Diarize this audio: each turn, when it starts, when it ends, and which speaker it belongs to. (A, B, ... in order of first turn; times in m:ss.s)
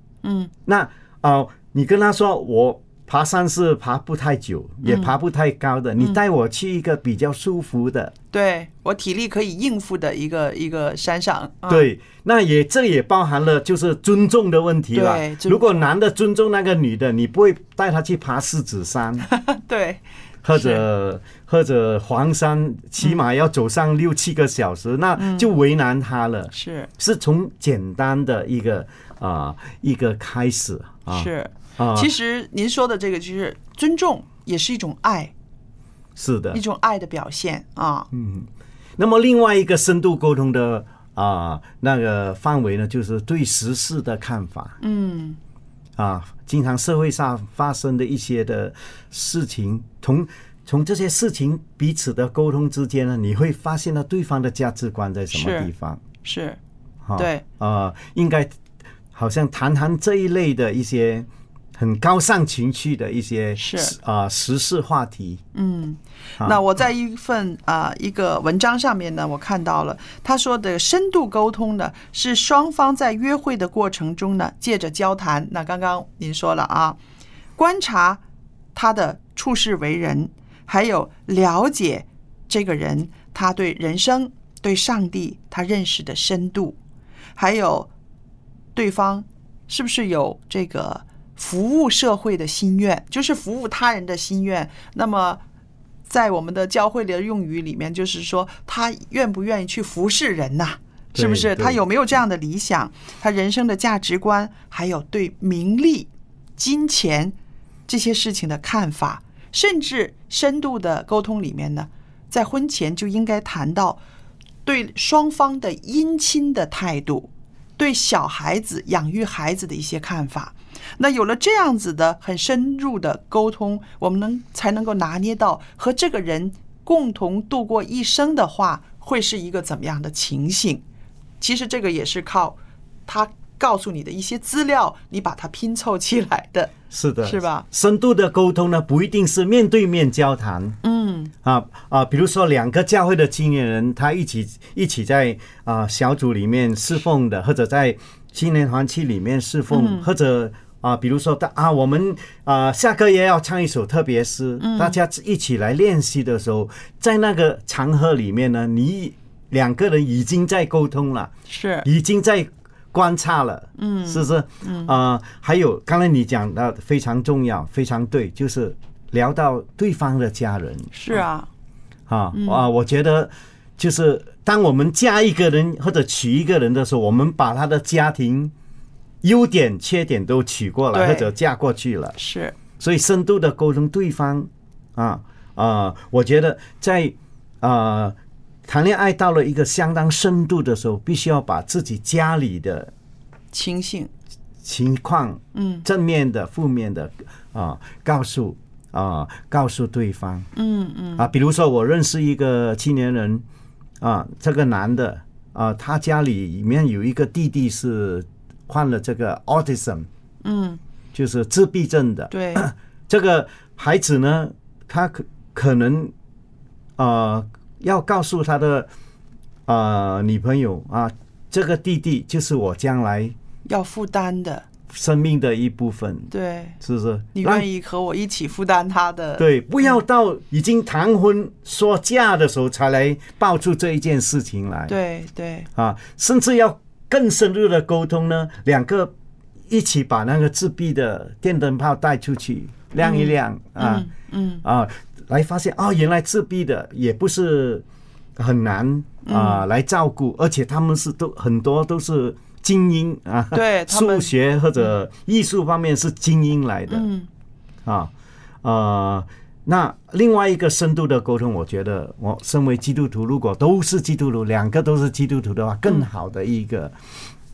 0:00.2-0:00.5 A
0:00.7-0:08.1 B
0:04.8-0:05.1 A
0:08.3-0:11.9 A
0:11.7-0:19.3 B
0:14.9-0:15.9 A
0:19.3-0:20.8 A
0:20.4-0:32.1 B
0:25.2-0:25.5 A
0:26.5-0:26.9 A
0:31.1-0:35.3 A
0:36.2-0:36.6 B
0:36.5-0:38.1 A
0:38.1-0:44.8 B
0:44.8-0:45.4 A
0:46.0-0:56.0 B
0:55.3-0:55.7 A
0:56.2-0:56.6 A
0:57.0-0:58.5 B
0:57.2-0:57.4 A
0:59.1-1:05.4 B
1:03.6-1:04.0 A
1:05.6-1:17.0 A
1:17.6-1:18.2 A
1:18.8-1:26.8 A
1:27.4-1:27.9 A
1:28.8-1:35.4 A
1:36.1-1:47.4 A
1:41.2-1:41.8 B
1:47.9-1:54.0 A
1:54.6-2:10.8 A
2:11.4-2:17.6 A
2:16.9-2:20.8 B
2:20.8-2:21.3 A
2:21.4-2:41.3 B
2:29.7-2:30.1 A
2:34.6-2:35.0 A
2:41.5-2:41.9 A
2:41.8-2:51.2 B
2:43.8-2:44.9 A
2:50.9-2:51.5 A
2:52.1-2:58.5 B
2:52.3-2:52.7 A
2:59.2-3:02.2 B
3:00.9-3:01.3 A
3:02.2-3:02.6 A
3:02.8-3:12.9 B
3:13.5-3:14.1 A
3:14.6-3:20.5 B
3:15.5-3:15.9 A
3:20.6-3:21.3 A
3:21.2-3:23.4 B
3:24.0-3:30.1 B
3:30.4-3:30.8 A
3:31.1-3:36.1 B
3:32.3-3:32.7 A
3:37.0-3:38.9 B
3:39.7-3:43.4 B
3:43.7-3:44.7 A
3:44.9-3:47.7 B
3:46.3-3:46.8 A
3:47.4-3:50.0 A
3:49.4-3:55.0 B
3:54.9-3:55.7 A
3:55.8-3:59.1 B
3:59.7-4:04.1 B
4:03.0-4:04.6 A
4:04.6-4:07.8 B
4:08.4-4:17.1 B
4:09.2-4:09.6 A
4:13.5-4:14.9 A
4:16.9-4:17.3 A
4:17.8-4:18.1 B
4:18.6-4:27.0 B